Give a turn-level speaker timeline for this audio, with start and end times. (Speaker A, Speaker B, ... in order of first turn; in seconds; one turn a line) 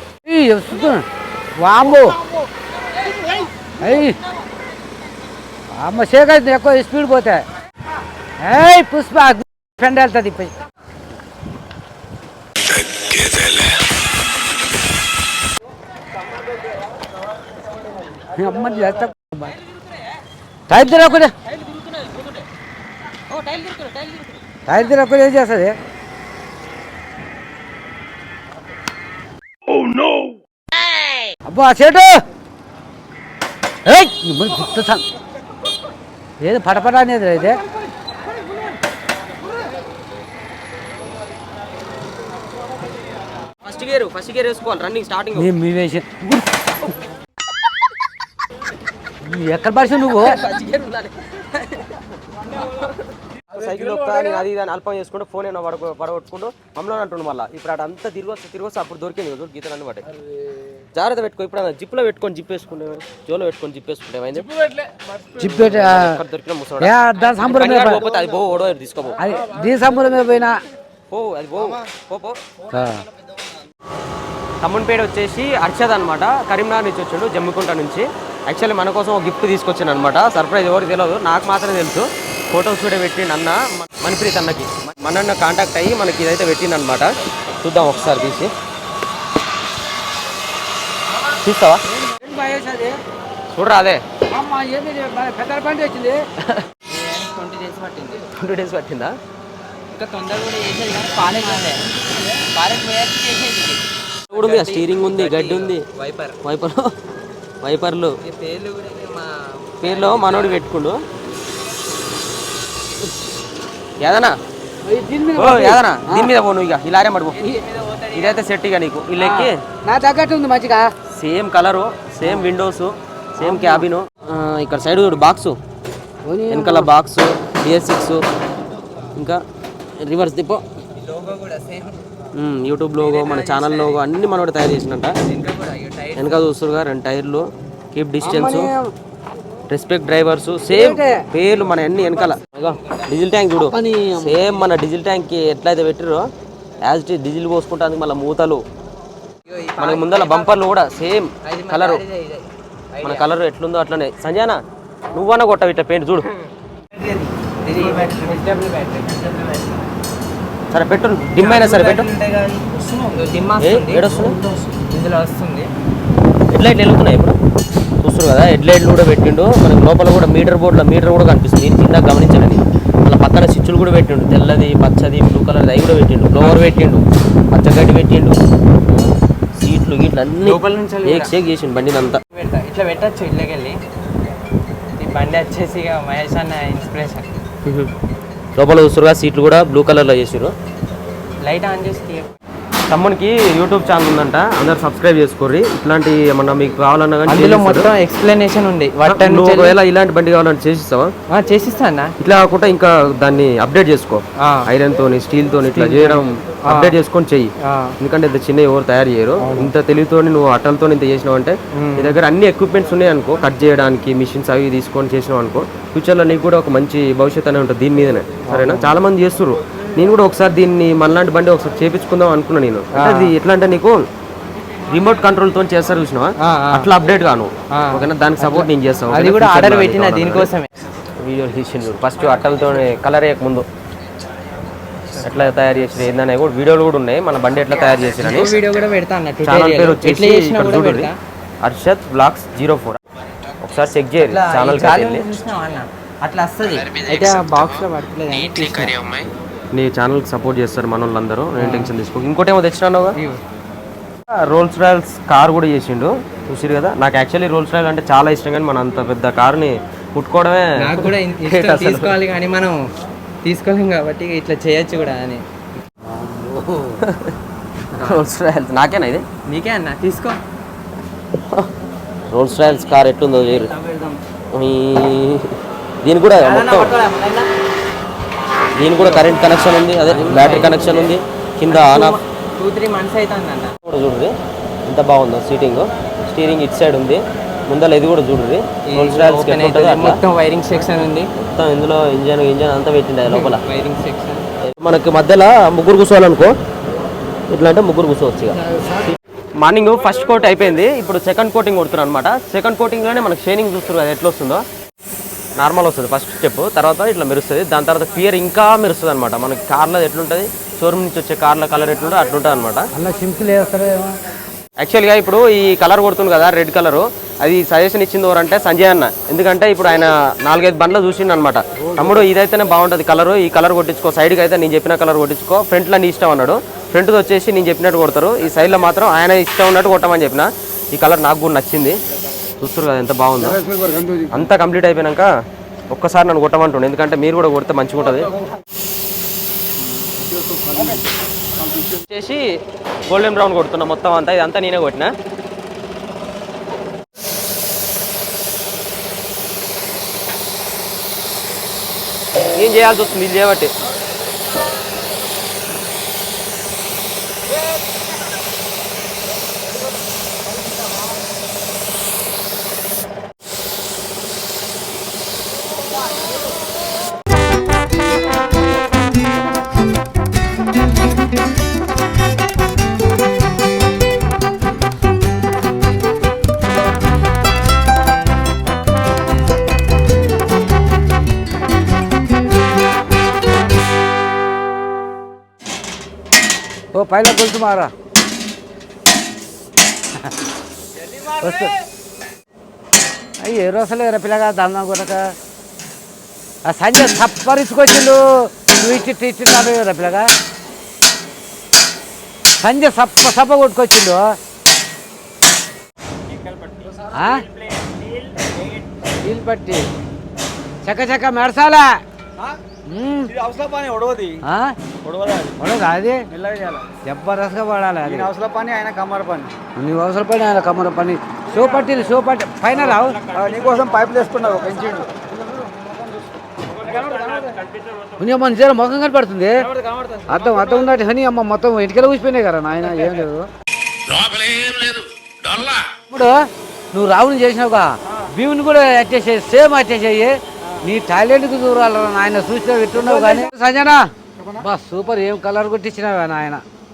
Speaker A: 0.2-1.0
Speaker A: 1.6-2.2
Speaker A: 3.8-4.2
Speaker A: 5.7-7.4
Speaker A: 8.4-10.5
Speaker B: 12.7-13.8
Speaker A: 18.2-19.5
Speaker A: 20.7-21.3
Speaker C: 20.8-22.4
Speaker C: 23.3-24.3
Speaker A: 24.6-25.8
Speaker A: 31.4-32.2
Speaker A: 33.9-35.0
Speaker A: 36.4-37.6
Speaker C: 43.6-45.5
Speaker A: 45.4-46.6
Speaker A: 49.2-50.4
Speaker C: 50.1-60.0
Speaker C: 60.9-64.5
Speaker A: 65.4-66.2
Speaker C: 65.4-69.2
Speaker A: 66.8-68.1
Speaker A: 69.2-70.5
Speaker C: 71.1-72.4
Speaker A: 72.7-73.0
Speaker C: 74.6-88.5
Speaker C: 91.3-91.8
Speaker A: 91.9-93.0
Speaker C: 93.5-94.0
Speaker A: 94.3-96.2
Speaker C: 96.4-96.7
Speaker D: 96.9-98.3
Speaker C: 98.3-99.1
Speaker D: 99.9-106.4
Speaker A: 101.2-101.8
Speaker C: 104.3-105.8
Speaker C: 106.4-106.9
Speaker C: 107.6-108.2
Speaker D: 108.2-110.6
Speaker C: 109.8-111.0
Speaker C: 114.0-114.3
Speaker A: 114.8-116.3
Speaker C: 115.4-117.4
Speaker D: 117.3-118.4
Speaker C: 118.1-119.6
Speaker A: 119.2-120.9
Speaker C: 121.1-125.5
Speaker A: 122.2-122.5
Speaker A: 123.4-123.9
Speaker A: 126.2-126.9
Speaker C: 126.5-128.2
Speaker C: 129.2-129.4
Speaker C: 130.0-130.6
Speaker D: 131.0-132.1
Speaker C: 132.3-135.2
Speaker D: 133.0-134.0
Speaker D: 135.2-136.4
Speaker C: 136.1-138.7
Speaker A: 138.2-138.9
Speaker C: 139.7-146.3
Speaker A: 140.7-141.2
Speaker D: 142.2-142.7
Speaker A: 143.7-144.4
Speaker C: 146.8-148.6
Speaker D: 149.5-150.6
Speaker C: 149.8-152.0
Speaker D: 151.4-153.3
Speaker C: 153.0-154.6
Speaker C: 155.1-156.3
Speaker D: 156.9-159.8
Speaker C: 160.7-162.1
Speaker D: 161.3-165.7
Speaker C: 163.6-164.4
Speaker C: 166.5-167.4
Speaker C: 168.0-178.4
Speaker D: 176.4-176.7
Speaker C: 178.9-182.2
Speaker D: 180.4-181.3
Speaker D: 182.3-183.8
Speaker D: 185.0-187.4
Speaker C: 187.6-187.9
Speaker C: 188.6-190.5
Speaker D: 191.4-192.3
Speaker C: 192.9-197.9
Speaker D: 197.2-199.8
Speaker C: 199.0-201.1
Speaker D: 201.3-202.1
Speaker C: 202.2-224.0
Speaker D: 204.4-204.7
Speaker D: 205.7-207.0
Speaker D: 207.6-207.9
Speaker D: 209.4-209.7
Speaker D: 211.7-212.2
Speaker D: 218.5-219.0
Speaker D: 222.9-223.3
Speaker C: 224.9-230.5
Speaker D: 226.4-226.9
Speaker D: 227.7-230.7
Speaker C: 231.2-233.7
Speaker D: 235.1-236.0
Speaker C: 235.2-238.5
Speaker D: 238.0-241.2
Speaker C: 239.4-241.1
Speaker C: 241.6-243.0
Speaker C: 243.6-245.3
Speaker D: 244.2-249.2
Speaker C: 249.7-253.2
Speaker D: 251.5-251.9
Speaker D: 253.1-253.4
Speaker C: 254.3-262.1
Speaker D: 260.8-262.9
Speaker D: 263.4-265.4
Speaker A: 266.0-267.0
Speaker C: 267.0-267.4
Speaker C: 268.0-269.2
Speaker D: 269.4-270.4
Speaker C: 271.4-271.7
Speaker C: 272.3-273.7
Speaker D: 273.6-274.2
Speaker C: 274.5-277.0
Speaker D: 276.4-277.5
Speaker C: 278.8-282.2
Speaker D: 279.0-279.3
Speaker D: 279.9-281.1
Speaker D: 281.7-283.8
Speaker C: 283.9-284.3
Speaker C: 284.9-290.2
Speaker D: 288.9-291.3
Speaker C: 291.4-293.6
Speaker D: 293.3-294.5
Speaker C: 294.6-296.5
Speaker C: 297.5-304.6
Speaker C: 305.6-312.9
Speaker A: 312.9-314.2
Speaker C: 314.8-332.0
Speaker A: 322.0-322.2
Speaker C: 332.6-333.6
Speaker E: 333.6-334.2
Speaker C: 334.3-335.3
Speaker C: 335.9-338.3
Speaker E: 340.2-341.0
Speaker C: 342.1-342.4
Speaker C: 343.1-345.1
Speaker C: 352.5-353.7
Speaker A: 386.9-387.9
Speaker A: 391.2-391.8
Speaker A: 393.4-395.2
Speaker A: 396.6-400.3
Speaker A: 402.6-404.3
Speaker A: 407.1-407.5
Speaker A: 409.2-409.8
Speaker A: 410.9-412.0
Speaker A: 412.9-413.3
Speaker E: 413.4-414.4
Speaker A: 414.4-414.8
Speaker E: 415.1-415.5
Speaker A: 415.6-416.3
Speaker E: 416.4-416.9
Speaker A: 417.0-418.3
Speaker E: 418.2-419.5
Speaker A: 419.8-423.3
Speaker E: 423.3-426.0
Speaker E: 427.1-427.5
Speaker A: 428.2-429.7
Speaker D: 429.8-430.2
Speaker A: 430.3-433.5
Speaker B: 434.1-435.9
Speaker A: 436.0-436.3
Speaker A: 436.9-444.0
Speaker A: 444.6-446.6